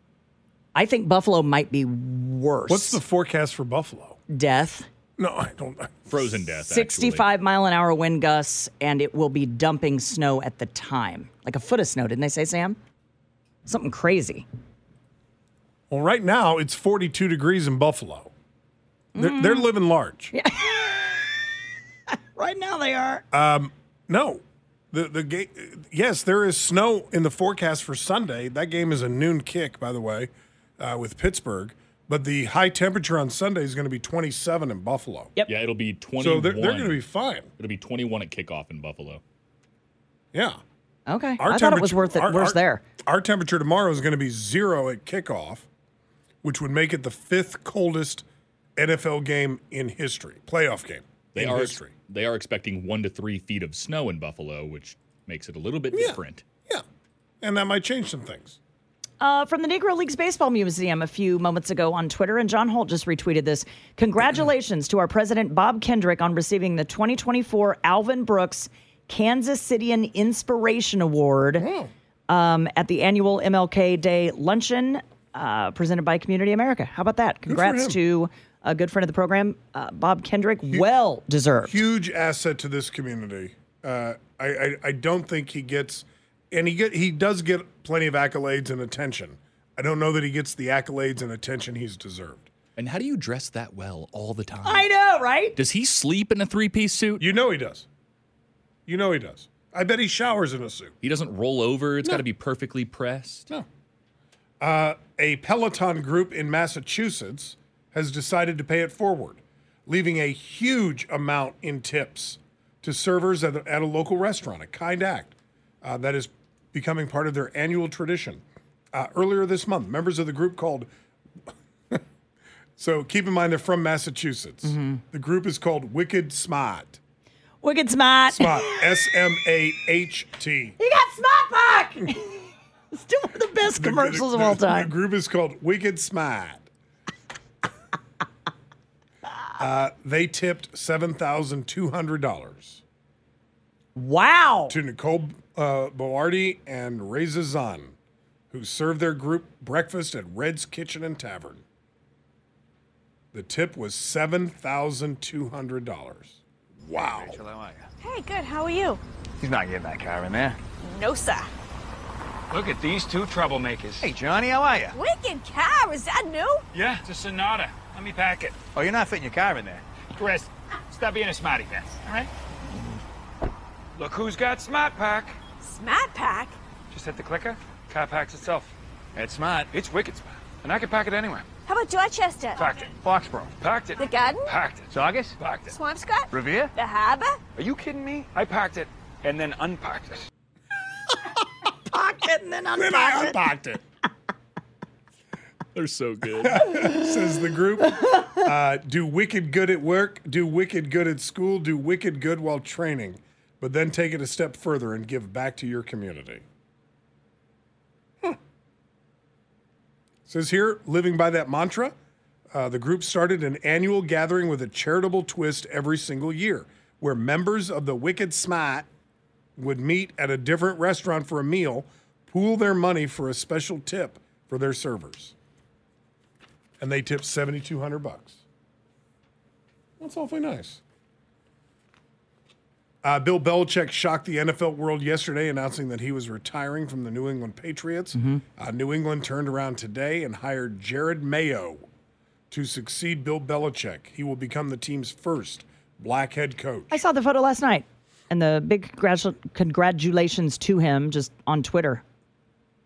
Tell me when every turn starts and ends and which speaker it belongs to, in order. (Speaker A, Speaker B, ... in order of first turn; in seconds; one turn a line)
Speaker A: 0.8-3.0
Speaker B: 2.7-4.2
Speaker A: 4.3-4.9
Speaker B: 5.2-6.4
Speaker C: 6.1-7.2
Speaker A: 6.7-12.8
Speaker A: 13.7-14.5
Speaker B: 15.9-18.3
Speaker A: 19.1-19.7
Speaker B: 19.2-20.3
Speaker A: 20.3-21.4
Speaker A: 22.4-23.2
Speaker B: 23.3-24.4
Speaker B: 24.9-35.3
Speaker C: 35.5-37.0
Speaker B: 36.2-37.5
Speaker C: 37.6-39.2
Speaker B: 40.3-40.6
Speaker A: 41.1-42.8
Speaker B: 41.4-45.7
Speaker B: 46.4-48.2
Speaker B: 48.8-51.9
Speaker C: 51.4-56.4
Speaker B: 55.9-56.8
Speaker B: 57.4-58.6
Speaker A: 59.2-71.7
Speaker B: 71.6-71.9
Speaker A: 72.3-81.8
Speaker B: 77.5-78.0
Speaker B: 81.6-92.5
Speaker C: 92.8-94.8
Speaker A: 94.7-95.6
Speaker C: 95.6-97.2
Speaker B: 97.2-97.9
Speaker B: 98.9-100.9
Speaker C: 101.0-103.5
Speaker B: 104.6-120.9
Speaker B: 122.8-127.0
Speaker A: 124.6-125.0
Speaker A: 127.6-128.8
Speaker B: 128.3-130.8
Speaker A: 130.8-132.4
Speaker A: 132.9-134.9
Speaker B: 133.8-136.7
Speaker B: 139.6-142.8
Speaker A: 143.9-144.8
Speaker B: 144.7-147.9
Speaker B: 148.5-151.6
Speaker B: 153.3-157.4
Speaker D: 157.1-157.8
Speaker E: 158.0-159.0
Speaker D: 159.4-160.6
Speaker E: 160.8-161.5
Speaker D: 162.5-165.0
Speaker E: 164.9-166.6
Speaker D: 166.7-172.3
Speaker D: 174.0-175.4
Speaker E: 175.6-176.6
Speaker D: 176.9-181.5
Speaker E: 181.7-182.6
Speaker D: 182.6-185.8
Speaker E: 184.0-184.5
Speaker E: 185.7-187.4
Speaker D: 186.3-186.7
Speaker D: 187.6-190.2
Speaker A: 191.9-193.4
Speaker B: 192.8-193.8
Speaker C: 195.8-196.7
Speaker B: 196.4-206.4
Speaker B: 210.3-211.9
Speaker B: 212.5-218.9
Speaker B: 219.6-225.3
Speaker B: 226.8-228.4
Speaker B: 230.0-230.8
Speaker B: 233.0-241.8
Speaker A: 238.2-238.4
Speaker B: 242.5-247.0
Speaker A: 246.9-252.0